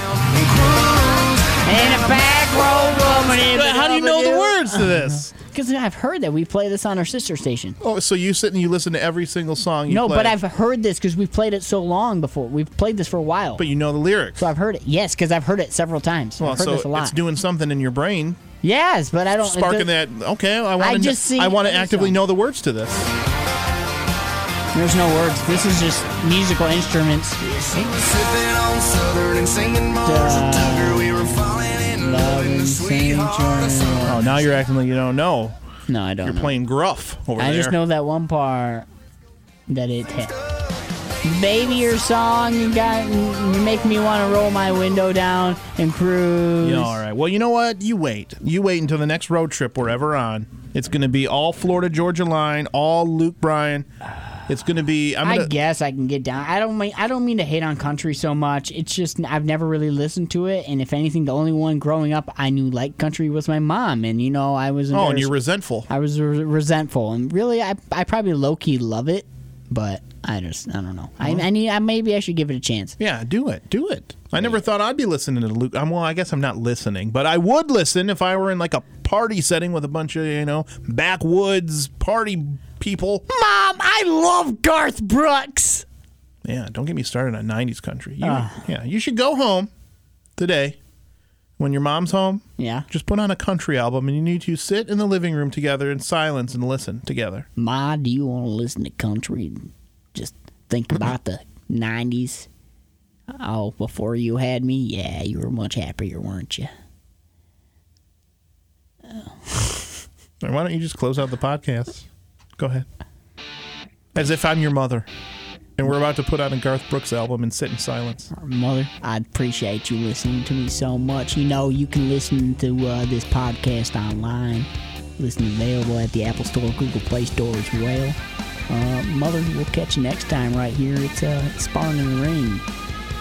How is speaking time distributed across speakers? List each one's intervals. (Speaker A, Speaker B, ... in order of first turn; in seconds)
Speaker A: 0.4-1.3, 28.0-33.7
Speaker B: 1.6-7.8, 9.9-13.7, 14.4-17.2, 18.6-19.9, 20.8-22.2, 24.7-28.0, 30.0-34.3, 35.9-36.6, 37.4-38.9, 39.7-40.4, 41.2-47.0, 55.2-65.3, 65.9-73.0, 83.3-85.8, 88.2-88.6, 92.6-92.9, 97.6-102.5, 103.3-106.7, 109.1-109.9, 118.3-128.2, 128.7-132.7
Speaker C: 3.5-5.3, 7.8-10.4, 13.6-14.4, 16.4-18.4, 19.4-23.1, 34.0-35.6, 36.2-37.8, 46.6-53.9, 54.5-55.5, 64.9-65.9, 71.2-71.5, 73.0-83.2, 86.4-89.7, 90.4-90.8, 91.6-97.5, 110.4-112.1, 112.6-112.9, 114.1-115.1, 115.8-118.3